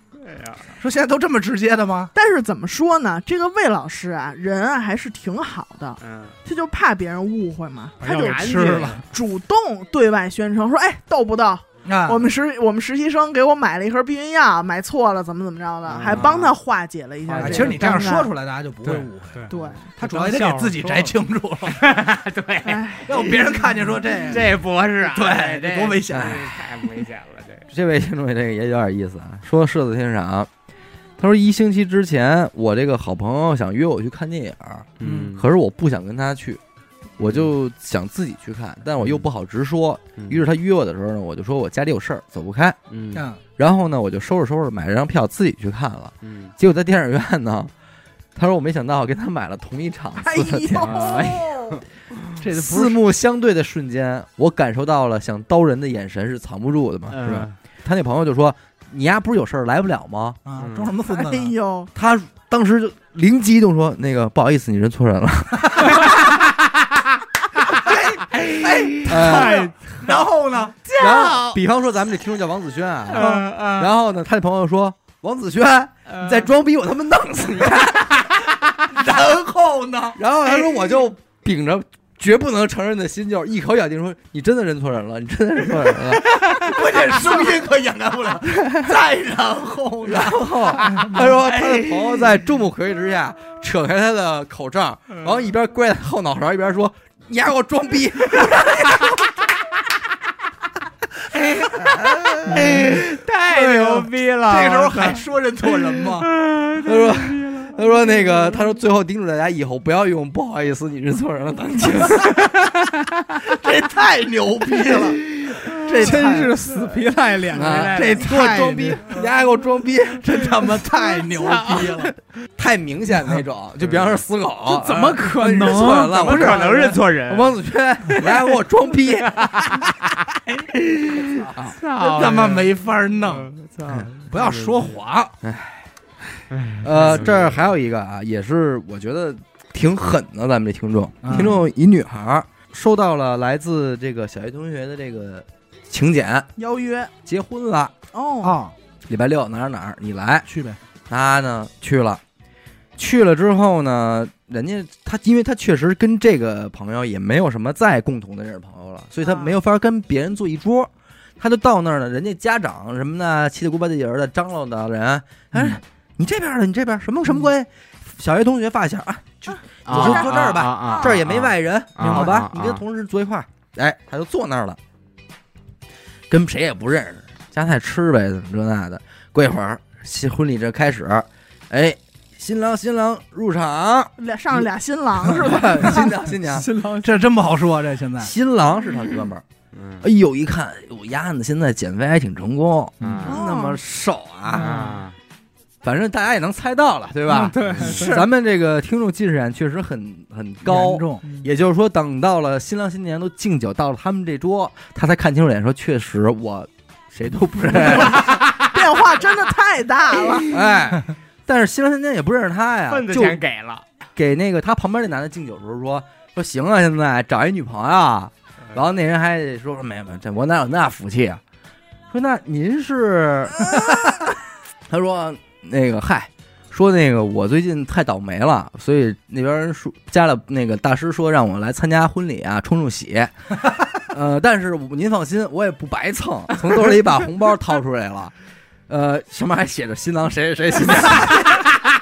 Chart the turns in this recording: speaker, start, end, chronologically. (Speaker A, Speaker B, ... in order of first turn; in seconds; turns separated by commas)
Speaker A: 0.2-0.7, Speaker B: 0.8-2.1, Speaker C: 2.1-18.3, Speaker A: 6.0-6.3, Speaker D: 8.0-9.0, Speaker A: 8.2-9.0, Speaker B: 8.4-9.0, Speaker B: 11.8-12.3, Speaker A: 15.9-16.5, Speaker E: 17.3-17.8, Speaker B: 17.4-19.4, Speaker D: 18.8-21.0, Speaker C: 19.5-19.8, Speaker A: 19.5-19.8, Speaker B: 20.0-21.8, Speaker A: 21.7-23.4, Speaker C: 22.6-23.8, Speaker B: 23.1-26.5, Speaker A: 24.3-27.7, Speaker E: 26.1-26.6, Speaker E: 27.7-30.5, Speaker E: 31.2-36.6, Speaker A: 35.0-35.5, Speaker E: 37.2-42.8, Speaker A: 42.9-43.3, Speaker B: 43.1-43.4, Speaker E: 43.6-47.7, Speaker A: 46.2-46.5, Speaker E: 48.4-51.2, Speaker C: 50.2-51.8, Speaker A: 50.8-51.8, Speaker B: 52.4-53.0, Speaker E: 52.5-60.4, Speaker A: 57.1-57.5, Speaker B: 60.5-61.5, Speaker A: 60.6-61.0, Speaker C: 61.1-61.9, Speaker E: 62.0-66.0, Speaker A: 66.1-66.7, Speaker B: 67.8-70.8, Speaker A: 68.3-70.2, Speaker E: 69.1-69.7, Speaker A: 70.8-71.6, Speaker E: 71.0-78.3, Speaker A: 73.1-73.9, Speaker B: 73.2-73.5, Speaker A: 76.1-76.5, Speaker A: 77.5-79.0, Speaker B: 78.9-80.2, Speaker E: 80.2-86.5, Speaker A: 85.9-87.5, Speaker B: 86.5-91.4, Speaker E: 90.1-99.2, Speaker A: 101.3-108.7, Speaker E: 101.8-102.5, Speaker B: 102.5-106.3, Speaker E: 106.8-112.5, Speaker A: 111.9-113.6, Speaker B: 113.4-116.6, Speaker A: 114.8-116.2, Speaker D: 116.0-118.4, Speaker E: 117.5-120.5, Speaker B: 117.9-119.2, Speaker B: 120.2-122.1, Speaker A: 120.9-122.2, Speaker E: 122.6-129.7, Speaker D: 124.7-126.3, Speaker A: 126.1-127.5, Speaker B: 126.2-126.9, Speaker A: 128.1-135.0, Speaker E: 131.3-131.8, Speaker B: 131.9-133.5, Speaker B: 134.3-135.3, Speaker E: 135.4-135.8, Speaker A: 136.5-137.6, Speaker E: 136.8-146.5, Speaker B: 141.2-141.6, Speaker C: 146.6-147.1, Speaker E: 147.2-147.9, Speaker C: 148.1-148.6, Speaker B: 148.4-148.7, Speaker E: 149.1-150.5, Speaker B: 150.5-150.8, Speaker E: 151.1-152.2, Speaker E: 153.0-174.8, Speaker B: 165.5-165.8, Speaker B: 169.4-171.2, Speaker A: 169.8-172.8, Speaker B: 172.0-172.5, Speaker E: 176.3-184.7, Speaker C: 184.2-186.1, Speaker E: 185.2-186.7, Speaker B: 185.5-186.0, Speaker D: 186.4-187.3, Speaker B: 187.0-188.3, Speaker E: 188.2-189.4, Speaker A: 189.7-190.0, Speaker E: 190.0-194.7, Speaker A: 193.0-193.4, Speaker C: 193.3-193.8, Speaker D: 194.5-195.0, Speaker A: 194.5-195.2, Speaker E: 195.8-208.3, Speaker D: 197.3-198.3, Speaker A: 197.7-198.1, Speaker B: 200.7-201.2, Speaker A: 207.8-208.9, Speaker C: 208.7-210.5, Speaker E: 210.5-213.4, Speaker A: 212.9-213.8, Speaker E: 214.2-221.4, Speaker E: 222.1-224.2, Speaker E: 224.9-233.5, Speaker E: 234.1-238.3, Speaker E: 238.9-241.6